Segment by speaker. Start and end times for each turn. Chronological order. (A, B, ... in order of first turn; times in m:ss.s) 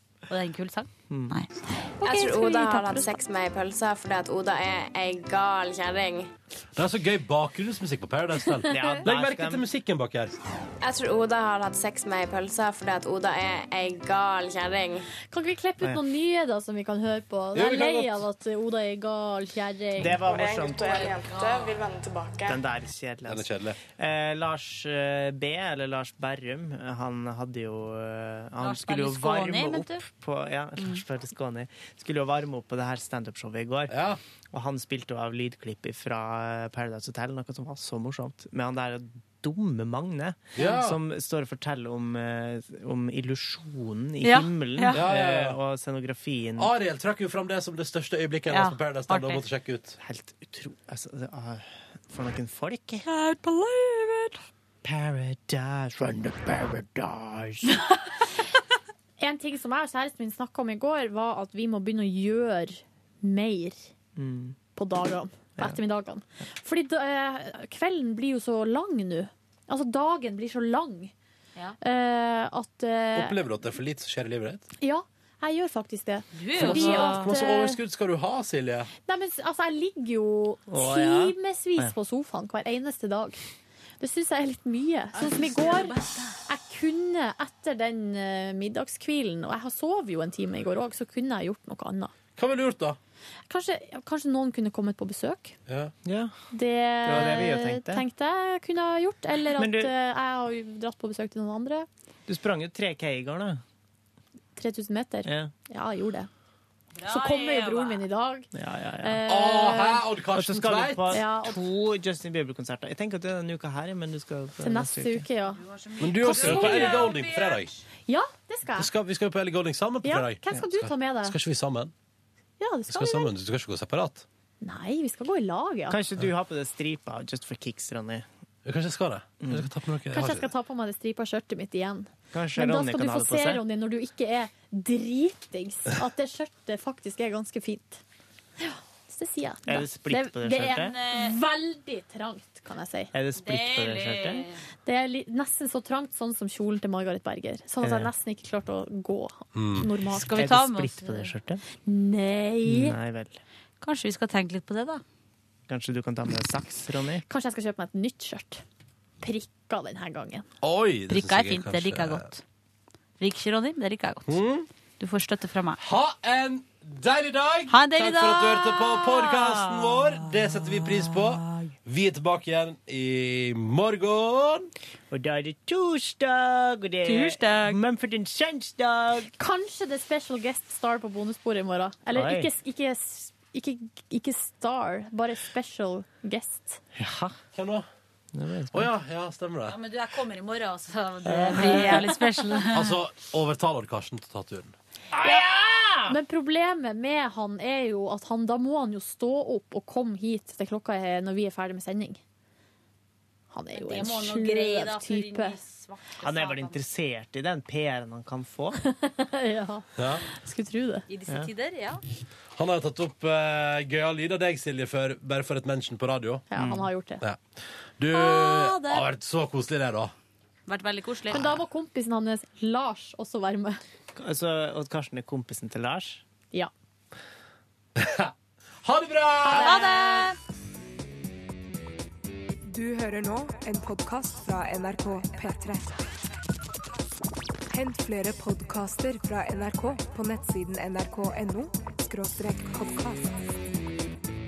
0:00.3-0:01.5 A
0:01.1-0:01.4 B
0:02.0-0:03.2 A
0:02.0-0:06.3 C
0:06.8-0:10.3 D
0:08.7-0:09.6 B
0:10.8-0:15.0 C
0:15.3-0:20.2 E
0:17.5-0:18.2 D
0:20.0-0:21.4 B
0:20.9-0:21.8 A
0:21.9-0:22.4 C
0:22.4-0:33.9 B
0:23.3-0:23.8 D
0:28.6-0:30.0 A
0:33.9-0:34.2 D
0:34.5-0:46.7 B
0:40.5-0:41.0 D
0:44.2-0:45.0 A
0:44.9-0:45.6 D
0:46.6-0:50.0 D
0:48.5-0:49.4 A
0:50.0-0:53.0 B
0:53.0-0:54.4 A
0:54.8-0:57.7 B
0:59.2-1:03.9 E
1:04.2-1:04.6 B
1:04.7-1:11.1 E
1:11.8-1:13.4 E
1:13.1-1:14.6 D
1:14.8-1:17.8 E
1:16.3-1:17.3 A
1:16.6-1:18.9 D
1:19.0-1:23.4 E
1:20.7-1:21.9 B
1:24.0-1:25.9 E
1:25.1-1:26.4 A
1:26.5-1:32.1 E
1:32.4-1:33.0 D
1:33.5-1:35.5 E
1:35.7-1:35.9 D
1:36.0-1:36.3 B
1:36.5-1:41.9 E
1:37.0-1:38.0 B
1:39.6-1:39.9 B
1:42.3-1:43.6 B
1:44.6-1:46.3 E
1:45.2-1:45.5 B
1:47.0-1:48.0 A
1:47.1-1:48.5 E
1:48.5-1:49.2 B
1:49.0-1:50.0 E
1:49.3-1:51.2 D
1:50.3-1:55.2 B
1:51.1-1:51.6 E
1:54.6-1:55.6 E
1:55.6-1:57.7 A
1:56.0-1:57.7 D
1:56.2-1:57.1 E
1:58.1-1:58.9 E
1:58.8-2:01.9 D
2:00.0-2:01.4 E
2:02.6-2:03.3 E
2:02.9-2:04.2 D
2:04.6-2:06.0 E
2:05.9-2:08.2 B
2:08.6-2:10.5 D
2:10.1-2:18.0 E
2:12.3-2:13.6 B
2:18.6-2:23.1 E
2:19.7-2:20.9 B
2:20.8-2:21.3 A
2:23.1-2:24.5 B
2:23.4-2:24.6 A
2:24.8-2:30.4 E
2:27.8-2:28.1 B
2:29.5-2:29.9 D
2:30.1-2:31.3 A
2:30.4-2:31.6 B
2:31.8-2:33.0 E
2:32.6-2:33.4 B
2:33.8-2:35.0 A
2:35.7-2:37.2 B
2:37.3-2:38.6 E
2:39.2-2:40.4 E
2:40.6-2:42.3 D
2:41.1-2:42.4 A
2:43.2-2:44.3 A
2:44.3-2:44.6 D
2:45.0-2:45.8 A
2:45.8-2:54.7 D
2:47.7-2:51.6 A
2:55.1-2:59.3 B
2:57.0-2:57.8 A
2:59.4-3:06.8 E
3:02.1-3:02.5 B
3:06.9-3:07.3 B
3:07.5-3:07.9 D
3:08.3-3:08.9 B
3:08.7-3:09.8 D
3:09.7-3:12.9 A
3:11.2-3:12.1 B
3:12.7-3:14.7 D
3:15.1-3:16.2 B
3:16.0-3:22.2 E
3:23.5-3:25.6 E
3:23.7-3:26.8 A
3:26.2-3:28.8 B
3:28.8-3:31.0 E
3:30.0-3:30.2 D
3:31.1-3:32.0 A
3:32.6-3:36.6 D
3:36.5-3:37.2 E
3:36.6-3:36.8 B
3:38.0-3:40.1 D
3:38.1-3:39.0 A
3:40.7-3:41.6 A
3:41.3-3:43.8 E
3:44.2-3:46.2 B
3:48.0-3:48.3 D
3:48.8-3:49.8 D
3:49.4-3:50.4 A
3:49.4-3:50.3 E
3:52.6-3:56.0 F
3:57.7-4:03.3 F